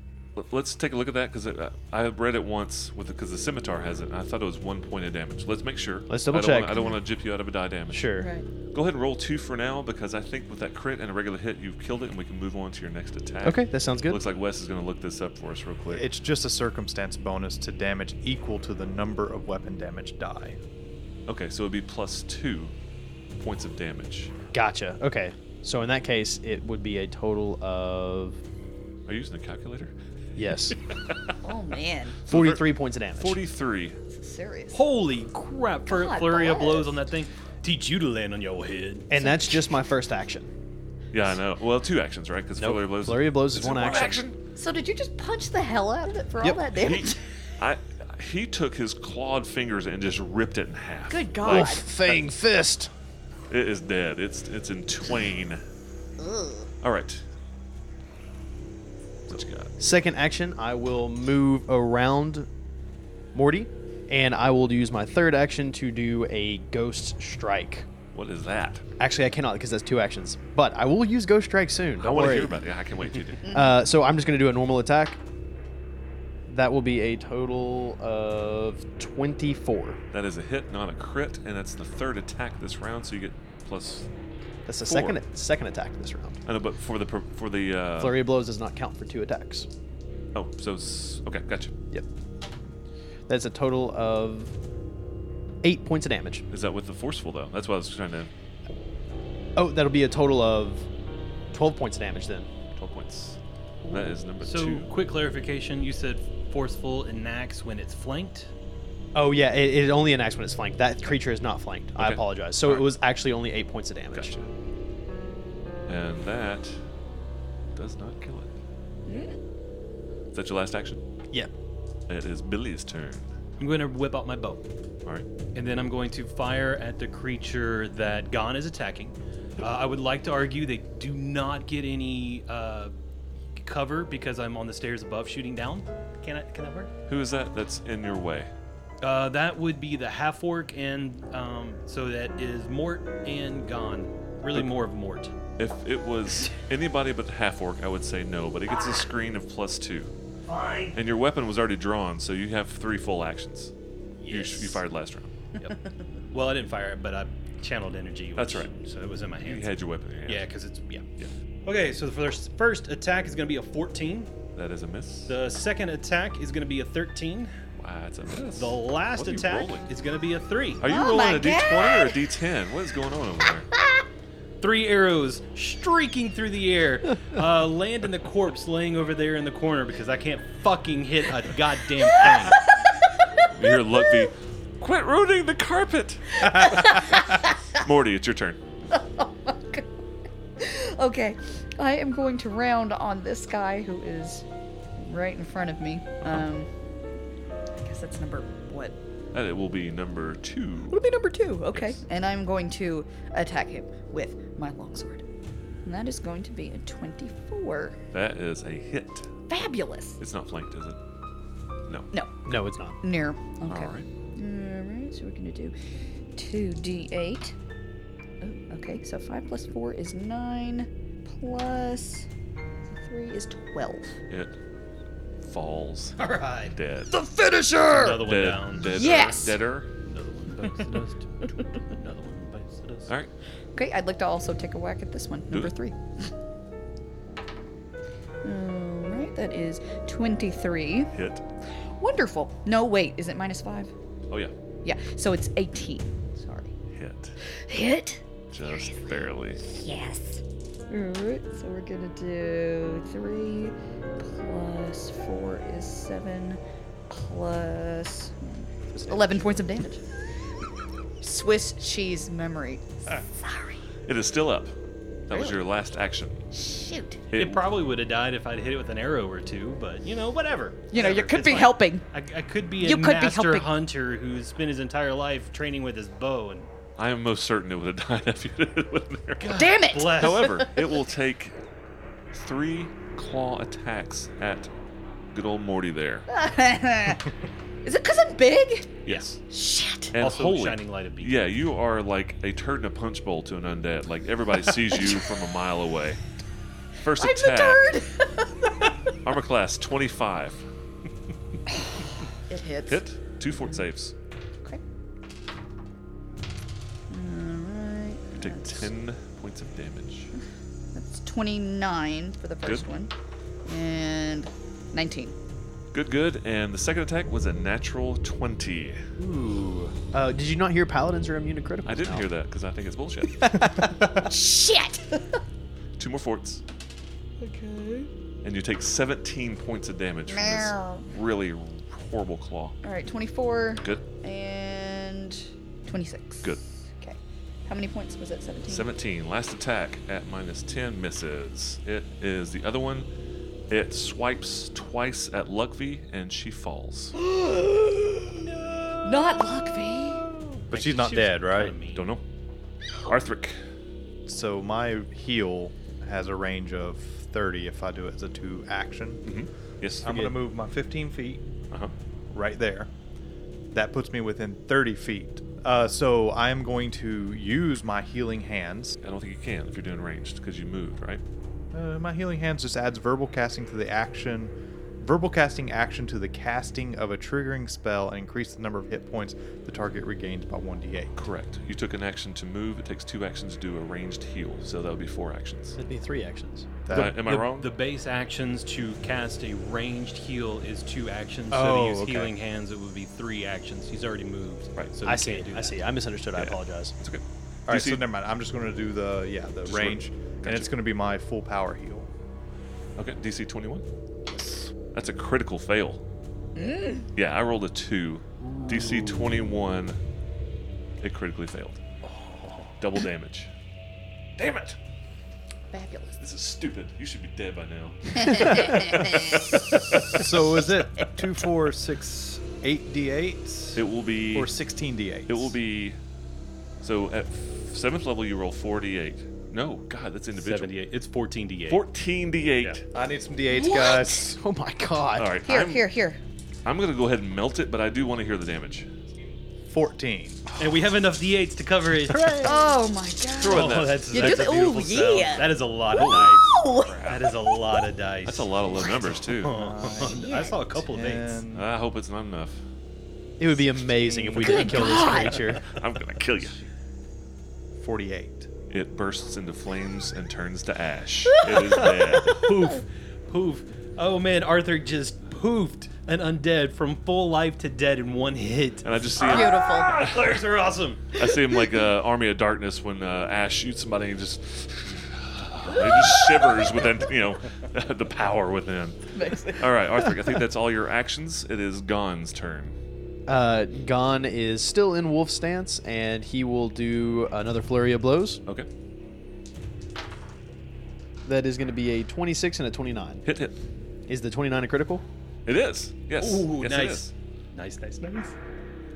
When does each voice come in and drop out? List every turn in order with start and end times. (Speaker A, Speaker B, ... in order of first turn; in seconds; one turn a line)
Speaker A: 0.4-8.2
Speaker B: 6.1-6.8
Speaker B: 7.9-8.3
Speaker C: 8.2-8.5
Speaker A: 8.7-16.1
Speaker B: 13.4-14.2
Speaker D: 15.9-20.6
Speaker A: 21.3-22.7
Speaker A: 23.4-24.3
Speaker B: 24.5-28.4
Speaker A: 29.1-29.9
Speaker B: 30.4-30.8
Speaker C: 31.4-32.2
Speaker A: 32.3-34.0
Speaker B: 32.3-33.4
Speaker C: 34.1-34.8
Speaker E: 34.7-39.1
Speaker C: 35.9-37.0
Speaker B: 39.1-40.5
Speaker C: 39.1-39.7
Speaker A: 41.1-44.4
Speaker B: 42.6-44.2
Speaker C: 44.5-47.2
Speaker A: 46.7-51.9
Speaker C: 51.1-51.9
Speaker B: 51.5-52.9
Speaker A: 53.5-55.6
Speaker C: 56.2-56.7
Speaker A: 56.8-57.2
Speaker A: 59.3-59.7
Speaker B: 59.8-62.5
Speaker B: 63.3-67.9
Speaker A: 68.1-68.8
Speaker B: 69.0-72.5
Speaker A: 72.0-73.5
Speaker C: 73.5-73.7
Speaker B: 73.5-75.2
Speaker B: 76.5-80.0
Speaker A: 80.1-84.1
Speaker B: 84.7-86.4
Speaker A: 84.9-85.2
Speaker A: 86.5-88.2
Speaker B: 88.0-89.7
Speaker A: 90.3-91.7
Speaker B: 93.3-94.5
Speaker B: 95.6-96.5
Speaker A: 96.5-98.3
Speaker B: 99.6-100.9
Speaker B: 101.5-102.5
Speaker A: 102.8-103.4
Speaker E: 103.8-108.5
Speaker A: 103.9-104.9
Speaker B: 109.2-114.3
Speaker A: 112.0-112.9
Speaker A: 114.1-114.5
Speaker A: 115.9-116.8
Speaker A: 117.8-118.5
Speaker C: 119.1-119.4
Speaker A: 120.3-121.0
Speaker A: 122.1-123.3
Speaker E: 123.6-124.6
Speaker E: 125.5-132.9
Speaker E: 133.6-136.9
Speaker A: 137.1-138.5
Speaker E: 139.0-145.3
Speaker A: 145.6-150.1
Speaker E: 150.5-150.9
Speaker A: 150.9-153.7
Speaker E: 154.2-154.8
Speaker A: 154.3-155.3
Speaker E: 156.3-159.7
Speaker A: 158.4-158.7
Speaker A: 159.4-160.5
Speaker E: 160.2-161.1
Speaker E: 161.7-164.3
Speaker A: 164.6-165.4
Speaker E: 165.3-167.5
Speaker A: 167.8-169.9
Speaker E: 168.5-170.9
Speaker A: 170.8-173.7
Speaker C: 170.8-172.2
Speaker E: 174.6-182.6
Speaker C: 182.5-184.3
Speaker A: 183.5-188.6
Speaker C: 186.4-187.6
Speaker C: 188.9-190.0
Speaker C: 190.6-194.4
Speaker C: 195.0-196.7
Speaker C: 197.8-199.0
Speaker A: 199.3-201.0
Speaker C: 200.9-205.2
Speaker A: 201.7-202.0
Speaker C: 205.8-208.0
Speaker A: 208.1-209.3
Speaker C: 209.5-210.2
Speaker A: 210.2-211.0
Speaker B: 212.4-213.0
Speaker C: 213.0-215.7
Speaker A: 213.7-214.1
Speaker C: 216.4-217.5
Speaker C: 218.4-222.3
Speaker C: 222.9-224.2
Speaker A: 224.3-224.6
Speaker A: 225.4-227.1
Speaker E: 226.2-226.8
Speaker C: 227.1-228.2
Speaker E: 227.7-229.0
Speaker A: 228.2-229.9
Speaker C: 228.8-229.6
Speaker E: 230.0-233.1
Speaker C: 233.8-236.3
Speaker C: 238.4-241.1
Speaker A: 241.1-241.4
Speaker C: 242.0-243.9
Speaker C: 244.8-246.7
Speaker A: 246.9-247.4
Speaker C: 247.7-249.0
Speaker A: 248.5-249.6
Speaker C: 249.6-260.0
Speaker B: 258.9-259.5
Speaker C: 261.2-263.8
Speaker A: 264.1-264.7
Speaker A: 265.3-266.4
Speaker C: 266.5-267.2
Speaker E: 267.3-276.7
Speaker A: 267.3-267.7
Speaker C: 270.9-272.1
Speaker C: 272.8-273.7
Speaker A: 277.0-281.6
Speaker E: 279.4-280.7
Speaker C: 279.5-281.0
Speaker A: 282.3-284.7
Speaker A: 285.3-286.3
Speaker C: 286.3-287.3
Speaker C: 287.9-290.2
Speaker A: 289.1-289.4
Speaker A: 290.1-296.2
Speaker E: 290.2-291.4
Speaker A: 297.0-297.9
Speaker C: 297.2-298.7
Speaker A: 299.2-300.6
Speaker C: 302.5-303.0
Speaker A: 302.9-304.1
Speaker C: 307.1-308.9
Speaker A: 308.3-310.3
Speaker C: 310.9-313.1
Speaker C: 313.7-315.4
Speaker A: 315.9-319.0
Speaker B: 319.2-322.3
Speaker A: 321.9-323.7
Speaker C: 323.8-325.4
Speaker A: 326.0-326.6
Speaker C: 327.4-328.1
Speaker A: 328.4-332.8
Speaker C: 330.3-331.1
Speaker C: 332.8-338.9
Speaker A: 338.7-343.1
Speaker A: 343.7-347.1
Speaker C: 347.2-350.4
Speaker D: 350.7-351.8
Speaker E: 350.7-352.1
Speaker A: 351.9-352.2
Speaker A: 353.1-353.6
Speaker D: 354.3-359.2
Speaker A: 359.2-360.3
Speaker D: 360.0-361.4
Speaker D: 362.3-362.9
Speaker D: 363.7-369.0
Speaker A: 369.0-371.2
Speaker D: 371.7-381.1
Speaker A: 381.2-385.8
Speaker B: 385.8-386.7
Speaker D: 386.9-387.2
Speaker A: 386.9-387.7
Speaker E: 386.9-395.8
Speaker B: 391.5-392.3
Speaker B: 395.0-396.9
Speaker A: 396.3-398.0
Speaker D: 397.7-402.1
Speaker A: 399.7-400.7
Speaker A: 403.0-403.9
Speaker A: 404.9-406.0
Speaker C: 406.6-407.1
Speaker A: 407.1-410.0
Speaker A: 411.0-411.8
Speaker E: 412.1-412.7
Speaker A: 412.8-413.5
Speaker A: 414.4-414.8
Speaker C: 415.7-416.2
Speaker A: 416.2-420.8
Speaker C: 418.2-419.7
Speaker D: 420.0-425.6
Speaker A: 423.8-424.6
Speaker A: 425.3-426.0
Speaker A: 426.8-430.8
Speaker E: 430.4-431.8
Speaker A: 431.7-432.8
Speaker D: 432.9-434.4
Speaker C: 433.5-434.3
Speaker B: 434.3-435.4
Speaker A: 435.2-435.9
Speaker C: 435.5-436.2
Speaker A: 436.6-438.9
Speaker D: 439.7-440.4
Speaker E: 440.6-442.7
Speaker C: 442.4-447.3
Speaker A: 443.4-444.6
Speaker E: 443.4-451.4
Speaker A: 445.9-446.3
Speaker A: 446.9-447.2
Speaker A: 448.2-449.6
Speaker D: 449.5-451.7
Speaker C: 450.0-450.6
Speaker A: 451.5-452.6
Speaker B: 453.4-455.6
Speaker E: 454.0-455.3
Speaker C: 454.4-455.6
Speaker A: 455.6-456.6
Speaker D: 457.8-458.5
Speaker A: 458.7-462.5
Speaker E: 461.8-471.2
Speaker A: 468.8-470.4
Speaker C: 469.2-470.1
Speaker A: 471.1-482.8
Speaker C: 475.8-476.8
Speaker C: 479.1-480.1
Speaker B: 483.3-488.4
Speaker B: 491.2-493.2
Speaker A: 493.2-493.6
Speaker B: 494.1-495.0
Speaker A: 495.5-497.1
Speaker E: 496.2-498.4